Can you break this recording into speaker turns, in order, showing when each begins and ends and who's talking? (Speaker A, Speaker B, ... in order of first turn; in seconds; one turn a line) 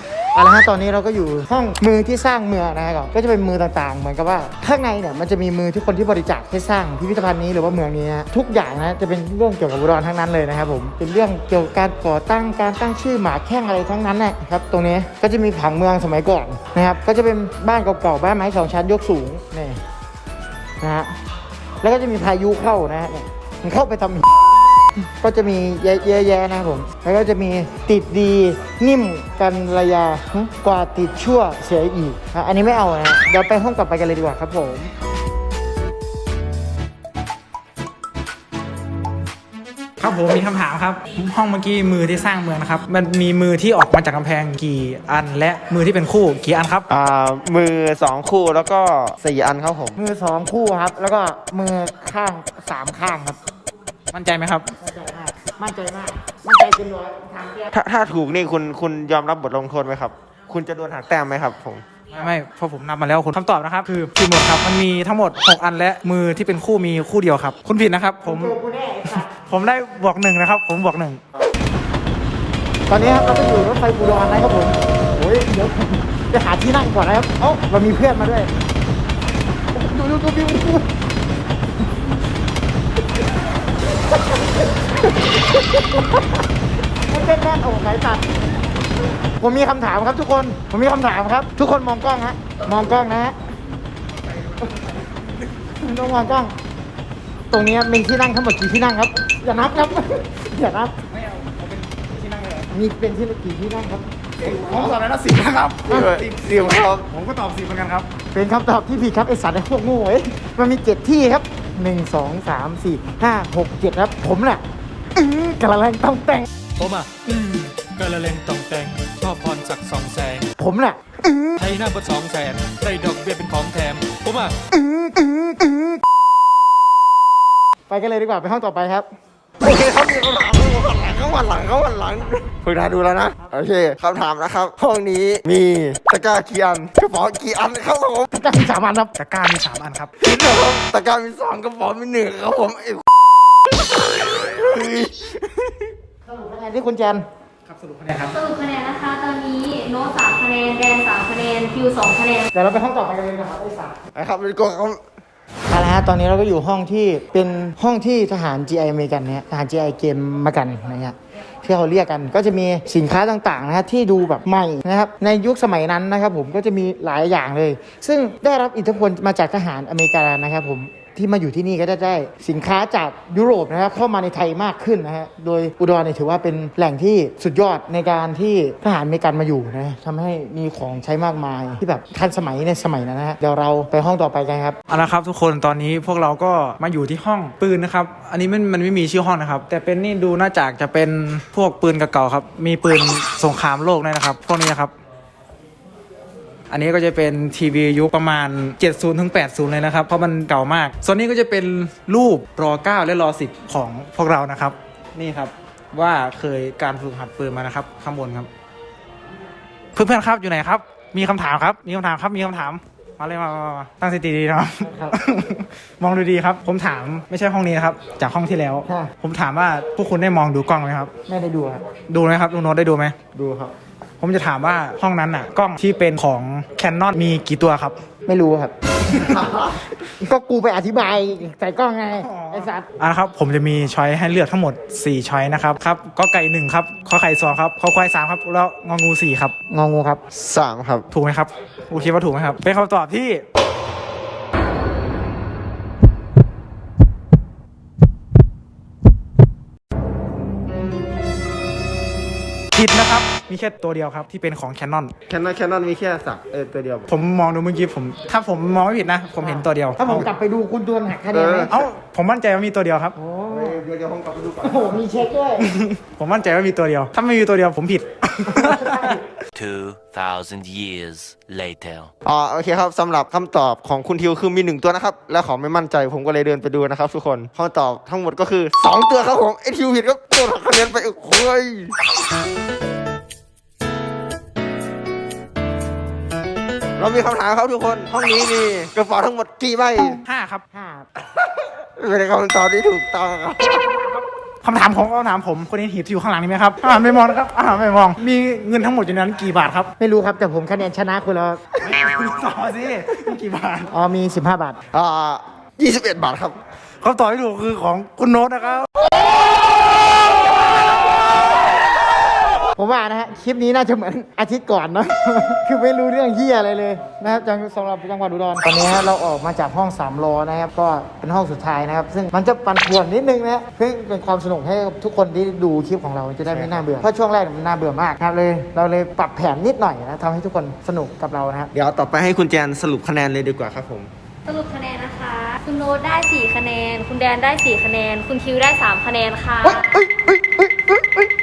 Speaker A: 0.3-19.8
Speaker A: 20.8-21.1
Speaker A: 21.8-24.2
Speaker A: 25.2-34.9
Speaker B: 40.0-46.9
Speaker C: 46.9-50.0
Speaker A: 50.0-53.4
Speaker B: 54.1-54.7
Speaker A: 54.8-57.7
Speaker C: 57.7-61.8
Speaker B: 62.1-68.5
Speaker A: 68.2-69.3
Speaker B: 69.2-71.2
Speaker A: 72.9-78.5
Speaker A: 79.7-80.9
Speaker A: 87.1-88.2
Speaker A: 89.4-93.3
Speaker A: 95.8-96.5
Speaker A: 97.5-100.9
Speaker B: 101.1-102.7
Speaker A: 102.7-104.0
Speaker B: 104.4-106.0
Speaker C: 105.9-107.1
Speaker B: 107.1-108.1
Speaker A: 108.3-114.6
Speaker A: 115.1-116.5
Speaker D: 116.8-120.5
Speaker A: 120.6-121.6
Speaker D: 121.6-124.5
Speaker A: 124.7-126.0
Speaker A: 127.9-129.1
Speaker C: 129.6-138.3
Speaker A: 138.3-139.1
Speaker B: 139.2-140.1
Speaker C: 140.2-143.0
Speaker C: 143.9-145.7
Speaker A: 146.2-147.2
Speaker B: 147.7-148.3
Speaker E: 148.3-152.5
Speaker A: 152.5-154.0
Speaker C: 154.1-155.0
Speaker A: 155.7-184.8
Speaker B: 184.9-194.9
Speaker B: 196.7-208.5
Speaker B: 209.9-221.1
Speaker A: 214.8-215.2
Speaker A: 218.9-219.1
Speaker A: 221.2-221.8
Speaker B: 222.1-223.2
Speaker C: 223.3-223.7
Speaker B: 224.2-227.9
Speaker A: 228.2-228.7
Speaker C: 229.3-229.7
Speaker A: 230.1-232.9
Speaker B: 232.2-239.5
Speaker A: 239.7-240.2
Speaker C: 240.3-241.0
Speaker B: 241.1-243.4
Speaker B: 252.7-255.1
Speaker C: 255.3-257.1
Speaker B: 257.1-260.3
Speaker A: 259.4-261.8
Speaker C: 261.3-261.7
Speaker B: 261.7-263.1
Speaker A: 263.1-263.8
Speaker C: 263.5-265.0
Speaker A: 264.6-265.7
Speaker B: 265.6-269.2
Speaker A: 268.5-269.2
Speaker F: 269.5-272.1
Speaker C: 272.2-281.9
Speaker C: 287.0-290.2
Speaker B: 290.1-290.6
Speaker A: 290.7-291.1
Speaker C: 291.4-293.9
Speaker B: 294.6-299.9
Speaker A: 300.0-301.6
Speaker B: 301.8-303.9
Speaker A: 303.9-304.8
Speaker C: 304.9-306.6
Speaker B: 307.0-308.9
Speaker A: 312.7-331.7
Speaker C: 326.4-327.0
Speaker C: 331.7-334.1
Speaker E: 334.5-339.8
Speaker A: 339.6-341.3